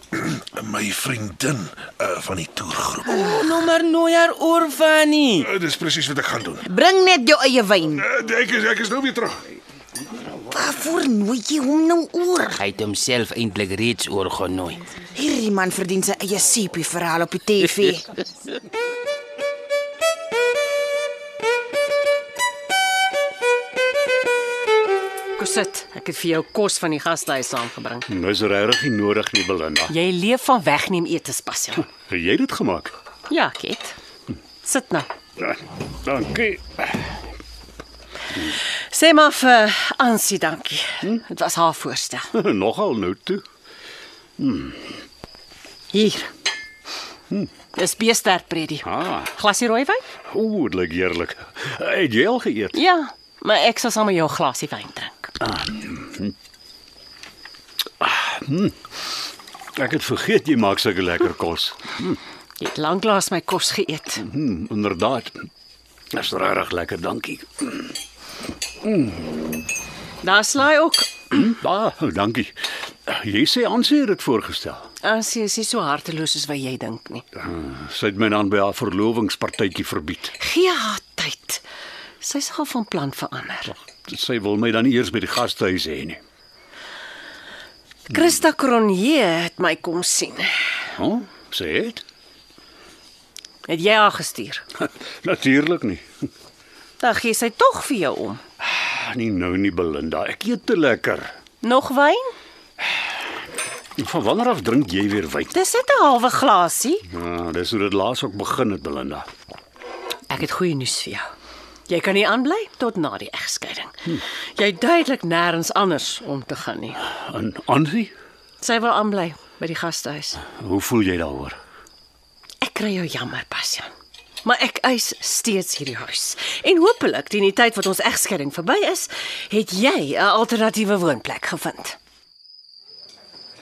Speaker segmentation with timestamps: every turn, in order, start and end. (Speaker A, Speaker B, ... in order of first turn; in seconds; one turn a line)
Speaker A: 0.1-3.2
Speaker B: 3.0-5.5
Speaker A: 5.4-6.7
Speaker C: 6.7-8.0
Speaker A: 8.0-9.4
Speaker C: 10.5-12.6
Speaker B: 12.5-14.9
Speaker C: 15.1-18.1
Speaker D: 25.4-28.1
Speaker E: 28.1-29.9
Speaker D: 29.9-31.9
Speaker E: 31.9-32.9
Speaker D: 33.3-34.0
Speaker D: 34.6-35.1
Speaker E: 35.4-37.0
Speaker D: 38.9-42.3
Speaker E: 42.3-43.4
Speaker E: 44.4-45.0
Speaker D: 45.9-46.3
Speaker D: 47.7-50.0
Speaker E: 48.8-49.3
Speaker E: 50.3-52.8
Speaker D: 52.7-55.3
Speaker E: 55.4-56.4
Speaker E: 58.0-58.8
Speaker E: 59.8-62.2
Speaker D: 62.6-64.2
Speaker E: 64.2-65.5
Speaker E: 66.1-68.0
Speaker E: 68.8-69.6
Speaker D: 70.2-71.3
Speaker E: 71.3-72.5
Speaker E: 73.1-74.9
Speaker D: 75.0-77.2
Speaker E: 77.4-80.3
Speaker D: 80.4-81.6
Speaker D: 82.2-83.7
Speaker E: 83.9-86.2
Speaker D: 88.1-90.8
Speaker E: 91.0-92.0
Speaker D: 93.7-94.6
Speaker E: 94.8-96.1
Speaker D: 97.0-98.4
Speaker E: 98.6-101.3
Speaker D: 101.6-102.3
Speaker E: 104.0-105.5
Speaker D: 105.5-107.1
Speaker E: 107.1-109.3
Speaker D: 110.3-111.3
Speaker D: 111.9-117.0
Speaker E: 117.1-118.1
Speaker D: 118.6-120.4
Speaker E: 120.4-121.6
Speaker D: 122.6-123.9
Speaker D: 124.4-132.0